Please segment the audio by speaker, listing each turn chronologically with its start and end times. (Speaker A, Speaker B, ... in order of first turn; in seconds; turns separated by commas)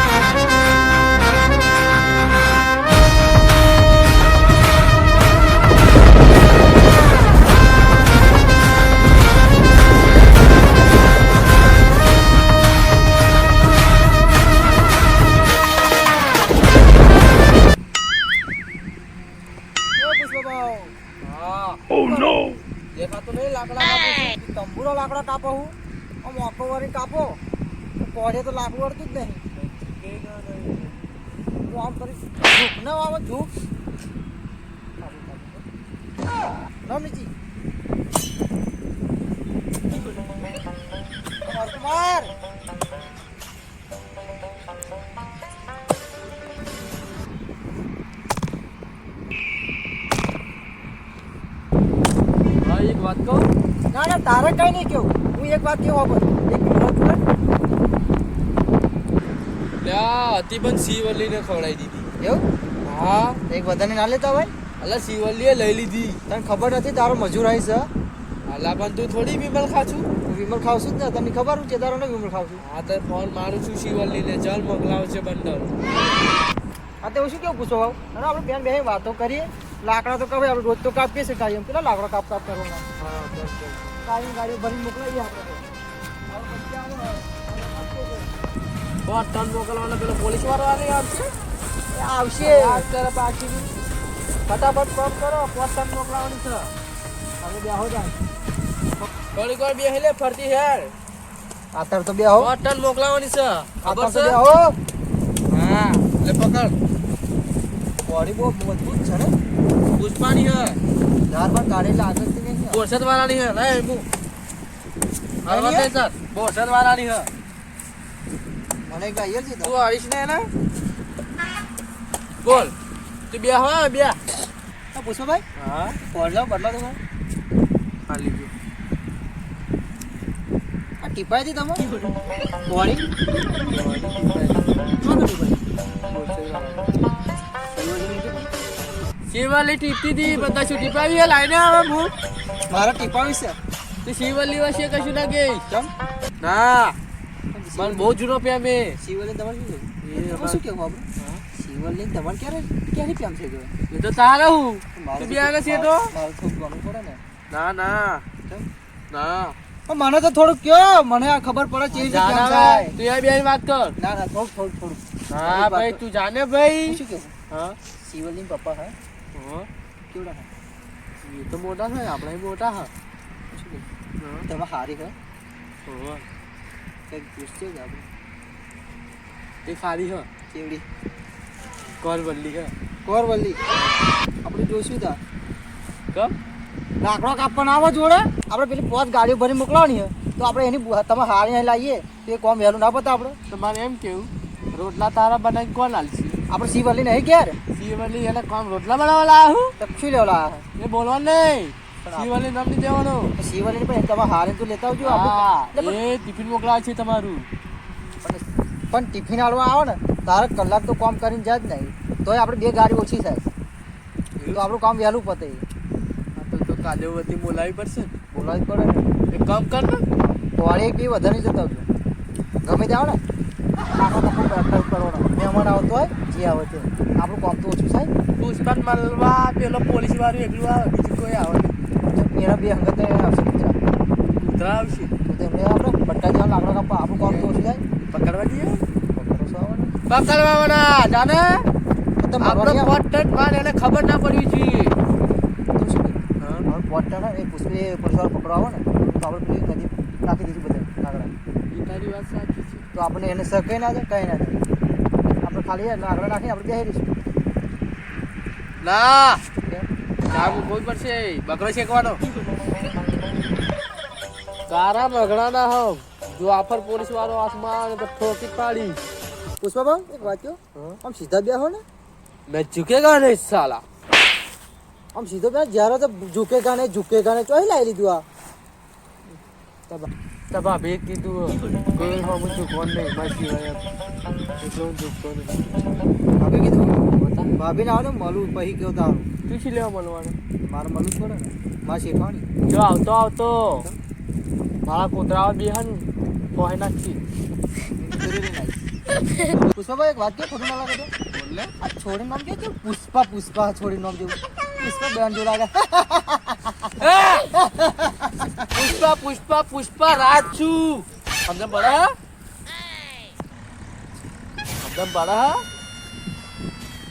Speaker A: 19.9-20.9, Speaker B: 21.2-22.0, Speaker A: 21.9-22.5, Speaker B: 22.9-24.2, Speaker A: 24.1-27.4, Speaker A: 27.9-29.4, Speaker B: 29.5-30.9, Speaker A: 31.6-33.5, Speaker A: 35.0-35.6, Speaker A: 36.8-37.3, Speaker A: 41.4-42.3, Speaker B: 52.6-53.5, Speaker A: 53.9-57.2, Speaker B: 59.8-62.1, Speaker A: 62.2-62.5, Speaker B: 62.8-63.4, Speaker A: 63.5-64.5, Speaker B: 64.7-66.2, Speaker A: 66.3-67.9, Speaker B: 68.5-70.1, Speaker A: 70.2-72.6, Speaker B: 72.6-75.8, Speaker A: 77.0-82.8, Speaker B: 83.0-83.9, Speaker A: 84.0-85.7, Speaker A: 86.3-88.3, Speaker B: 89.0-91.3, Speaker A: 91.9-92.9, Speaker B: 92.4-93.7, Speaker B: 94.5-96.7, Speaker A: 97.4-98.2, Speaker B: 99.3-100.9, Speaker A: 101.7-102.5, Speaker B: 102.4-104.4, Speaker A: 103.8-104.8, Speaker B: 105.5-106.7, Speaker A: 108.0-109.3, Speaker B: 109.9-110.8, Speaker A: 111.3-112.9, Speaker B: 112.7-114.0, Speaker A: 115.4-115.9, Speaker B: 115.4-117.3, Speaker A: 118.8-119.7, Speaker B: 119.6-120.5, Speaker B: 122.4-122.7, Speaker B: 123.3-124.2, Speaker A: 124.9-125.4, Speaker B: 125.5-126.0, Speaker A: 126.0-127.0, Speaker B: 128.1-128.5, Speaker A: 131.0-131.9, Speaker A: 132.7-133.1, Speaker B: 133.6-134.9, Speaker A: 134.9-135.7, Speaker B: 136.1-136.9, Speaker A: 137.7-138.5, Speaker B: 139.3-142.1, Speaker A: 142.7-143.6, Speaker B: 144.0-145.7, Speaker B: 146.4-147.0, Speaker A: 147.5-148.1, Speaker B: 147.7-149.0, Speaker A: 149.0-153.7, Speaker B: 150.0-150.6, Speaker B: 153.9-156.2, Speaker A: 154.9-157.2, Speaker B: 157.5-158.2, Speaker B: 159.1-159.6, Speaker A: 159.9-163.0, Speaker B: 161.9-164.0, Speaker A: 164.0-166.0, Speaker B: 165.3-167.8, Speaker A: 166.8-167.4, Speaker A: 167.9-168.9, Speaker B: 169.3-169.7, Speaker A: 170.1-170.5, Speaker B: 171.2-172.9, Speaker A: 173.5-173.9, Speaker B: 174.2-174.5, Speaker A: 174.5-175.2, Speaker B: 175.8-176.2, Speaker A: 177.1-178.1, Speaker B: 179.7-180.3, Speaker A: 180.5-180.8, Speaker B: 182.0-182.7, Speaker A: 183.0-183.6, Speaker B: 183.7-184.1, Speaker A: 184.4-185.2, Speaker A: 187.0-193.4, Speaker B: 193.5-196.4, Speaker A: 196.5-197.6, Speaker B: 197.7-199.8, Speaker A: 199.8-200.7, Speaker B: 200.8-203.3, Speaker A: 202.0-202.3, Speaker A: 203.4-206.0, Speaker B: 205.0-207.5, Speaker A: 208.2-213.5, Speaker B: 214.4-214.7, Speaker A: 214.5-215.6, Speaker B: 216.3-218.2, Speaker A: 218.3-219.1, Speaker B: 219.3-220.1, Speaker A: 220.6-221.8, Speaker A: 222.6-223.2, Speaker A: 223.8-228.1, Speaker B: 228.4-231.8, Speaker A: 232.1-233.8, Speaker B: 234.4-235.1, Speaker A: 235.2-237.8, Speaker B: 237.2-238.8, Speaker A: 239.1-239.9, Speaker B: 240.1-241.7, Speaker A: 242.2-242.9, Speaker B: 242.4-244.9, Speaker A: 245.7-251.3, Speaker B: 246.4-246.7, Speaker B: 251.7-252.8, Speaker A: 252.9-254.7, Speaker A: 255.4-257.1, Speaker B: 258.8-259.4, Speaker B: 260.3-262.2, Speaker B: 264.7-269.0, Speaker A: 269.6-271.8, Speaker B: 270.2-271.0, Speaker B: 272.5-273.8, Speaker A: 275.1-278.2, Speaker B: 279.9-283.9, Speaker B: 284.6-285.6, Speaker A: 286.4-287.0, Speaker B: 286.9-287.5, Speaker A: 287.6-289.3, Speaker B: 289.5-290.4, Speaker A: 290.6-292.4, Speaker B: 292.6-293.9, Speaker B: 294.9-297.2, Speaker A: 298.0-298.9, Speaker A: 299.4-301.1, Speaker B: 301.3-301.7, Speaker A: 301.8-308.5, Speaker B: 307.0-307.5, Speaker B: 308.7-312.1, Speaker B: 314.8-315.6